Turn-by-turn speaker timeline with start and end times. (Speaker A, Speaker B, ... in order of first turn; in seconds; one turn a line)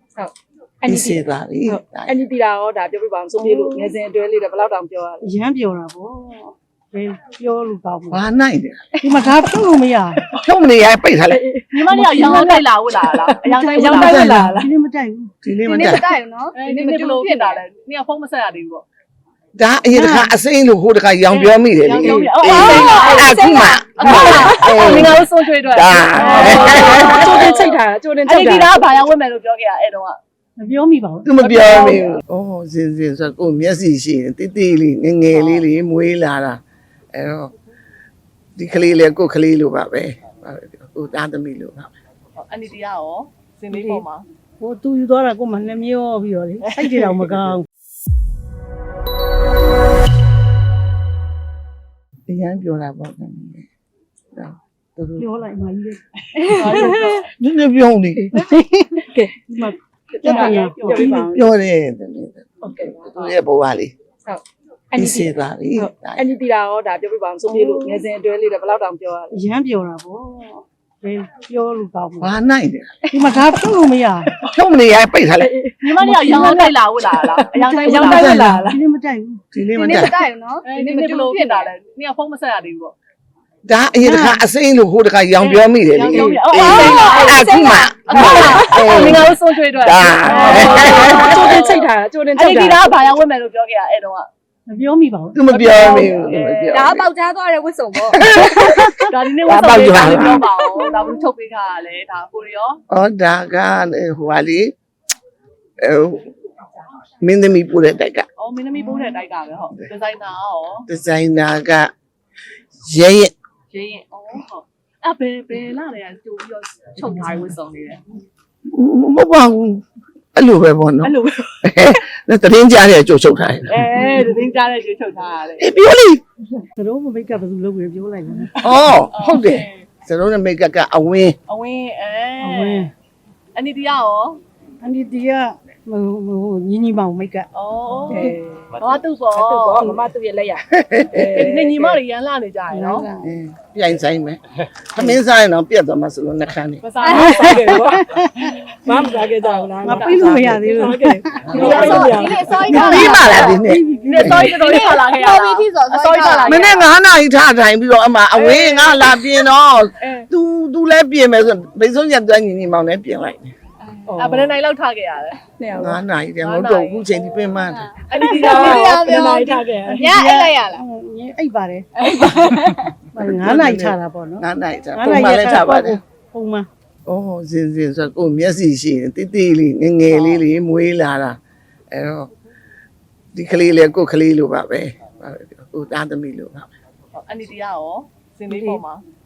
Speaker A: 0.8-5.2
Speaker B: 0.9-2.2
Speaker C: 3.4-3.9
Speaker C: 5.2-8.2
Speaker B: 8.1-8.9
Speaker C: 9.0-10.2
Speaker B: 10.4-11.4
Speaker A: 11.3-14.7
Speaker D: 11.7-14.3
Speaker C: 11.9-12.6
Speaker B: 13.9-14.6
Speaker C: 14.5-15.3
Speaker B: 15.4-16.1
Speaker E: 15.6-17.6
Speaker D: 16.6-18.9
Speaker B: 19.6-27.4
Speaker C: 19.9-20.4
Speaker D: 21.3-23.4
Speaker A: 22.4-25.1
Speaker D: 23.9-30.2
Speaker A: 26.2-29.0
Speaker C: 30.6-31.3
Speaker B: 31.2-36.6
Speaker D: 31.4-32.2
Speaker D: 35.3-35.6
Speaker B: 37.1-37.5
Speaker B: 38.6-41.9
Speaker D: 42.4-44.2
Speaker C: 43.7-44.0
Speaker C: 44.6-47.7
Speaker D: 46.7-47.3
Speaker B: 52.3-53.7
Speaker B: 54.4-55.2
Speaker C: 55.2-56.9
Speaker A: 56.4-57.1
Speaker D: 56.5-57.3
Speaker B: 57.2-58.3
Speaker C: 58.3-61.4
Speaker A: 59.1-59.4
Speaker A: 60.2-61.4
Speaker D: 60.5-61.0
Speaker B: 61.1-63.9
Speaker A: 62.6-63.1
Speaker A: 64.3-69.3
Speaker B: 65.0-66.3
Speaker C: 67.5-68.0
Speaker C: 69.3-72.3
Speaker B: 72.2-73.0
Speaker C: 73.1-74.3
Speaker B: 74.5-75.5
Speaker A: 75.4-78.8
Speaker D: 75.8-78.4
Speaker C: 76.0-76.7
Speaker C: 77.6-79.4
Speaker B: 78.0-78.6
Speaker B: 79.5-80.2
Speaker E: 79.7-81.7
Speaker D: 80.7-83.0
Speaker B: 83.7-91.7
Speaker C: 84.0-84.5
Speaker D: 85.4-94.3
Speaker A: 86.3-89.3
Speaker A: 90.2-93.0
Speaker C: 94.7-95.4
Speaker B: 95.3-97.1
Speaker D: 95.5-96.9
Speaker A: 96.7-98.9
Speaker B: 98.1-100.5
Speaker D: 99.1-102.8
Speaker A: 100.1-101.0
Speaker B: 102.9-104.7
Speaker B: 105.8-106.3
Speaker B: 107.2-108.3
Speaker D: 108.4-110.9
Speaker B: 110.9-111.9
Speaker B: 112.8-113.3
Speaker D: 113.7-118.0
Speaker B: 118.7-119.8
Speaker B: 120.3-123.8
Speaker D: 121.0-121.4
Speaker D: 123.7-125.7
Speaker B: 125.6-126.2
Speaker C: 126.8-128.9
Speaker B: 128.6-131.4
Speaker D: 129.1-129.9
Speaker D: 131.5-132.9
Speaker C: 132.4-132.9
Speaker D: 133.6-134.4
Speaker C: 134.8-137.5
Speaker D: 137.5-140.1
Speaker A: 138.1-138.8
Speaker A: 139.3-142.0
Speaker B: 140.8-141.4
Speaker D: 141.3-143.1
Speaker C: 142.7-143.3
Speaker B: 143.2-146.8
Speaker D: 146.8-147.8
Speaker E: 147.0-147.4
Speaker A: 147.1-148.2
Speaker C: 147.2-148.7
Speaker A: 148.8-152.6
Speaker D: 148.9-150.3
Speaker C: 149.8-152.1
Speaker B: 151.5-154.5
Speaker E: 151.5-153.6
Speaker C: 152.7-154.5
Speaker D: 152.7-153.2
Speaker D: 154.0-156.9
Speaker E: 154.3-156.8
Speaker B: 156.5-163.5
Speaker D: 158.3-159.2
Speaker D: 160.0-160.3
Speaker E: 163.9-164.3
Speaker A: 164.1-164.5
Speaker D: 164.2-165.4
Speaker A: 165.6-166.0
Speaker B: 165.8-167.9
Speaker D: 166.4-167.2
Speaker E: 168.0-170.8
Speaker D: 168.1-169.0
Speaker A: 168.2-170.0
Speaker C: 169.9-172.1
Speaker A: 172.0-172.6
Speaker E: 172.4-172.8
Speaker C: 173.1-176.7
Speaker B: 173.2-176.0
Speaker B: 177.1-181.4
Speaker D: 180.1-180.4
Speaker B: 181.9-182.3
Speaker B: 183.3-186.7
Speaker D: 187.2-189.0
Speaker C: 188.5-188.8